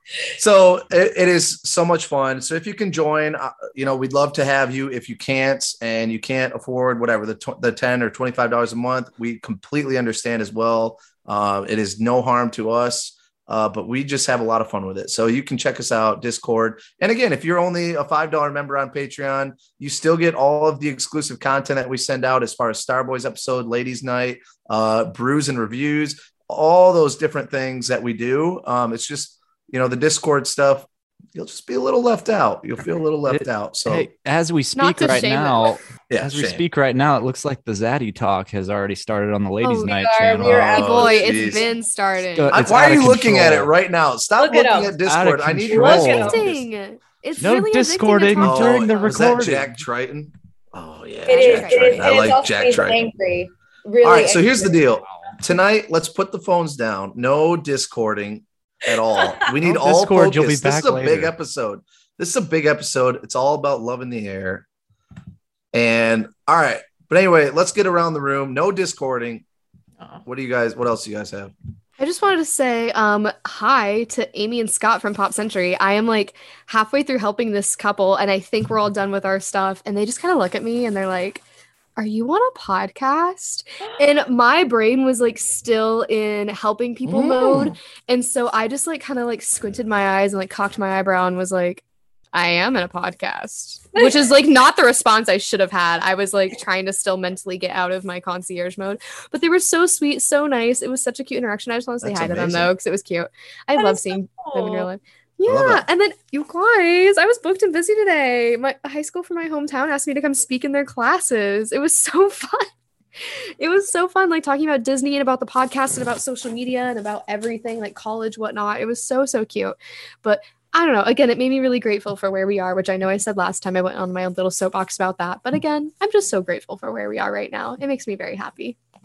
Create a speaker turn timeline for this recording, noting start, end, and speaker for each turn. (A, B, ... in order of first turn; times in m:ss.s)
0:00.4-0:34.1 A
0:33.3-0:41.0 B
0:34.7-0:35.8 C
0:36.1-0:36.6 A
0:39.6-0:39.9 C
0:39.8-0:41.8 D
0:40.5-0:42.6 C
0:40.7-0:41.7 A
0:42.4-0:43.7 B
0:42.5-0:46.6 A
0:44.4-0:44.9 D
0:45.0-0:46.4 B
0:45.7-0:46.4 D
0:45.8-0:49.2 C
0:47.4-0:49.7 B
0:48.4-0:53.1 A
0:51.2-0:54.8 D
0:51.3-0:52.2 C
0:51.7-0:52.0 B
0:54.0-1:04.6 A
0:59.6-1:01.3 B
1:05.7-1:09.4 A
1:10.2-1:11.5 A
1:12.0-1:21.4 C
1:22.0-1:52.7 C
1:27.0-1:27.7 A
1:33.9-1:34.2 D
1:42.0-1:42.7 A
1:43.8-1:44.9 D
1:45.4-1:45.8 A
1:53.6-2:08.8 C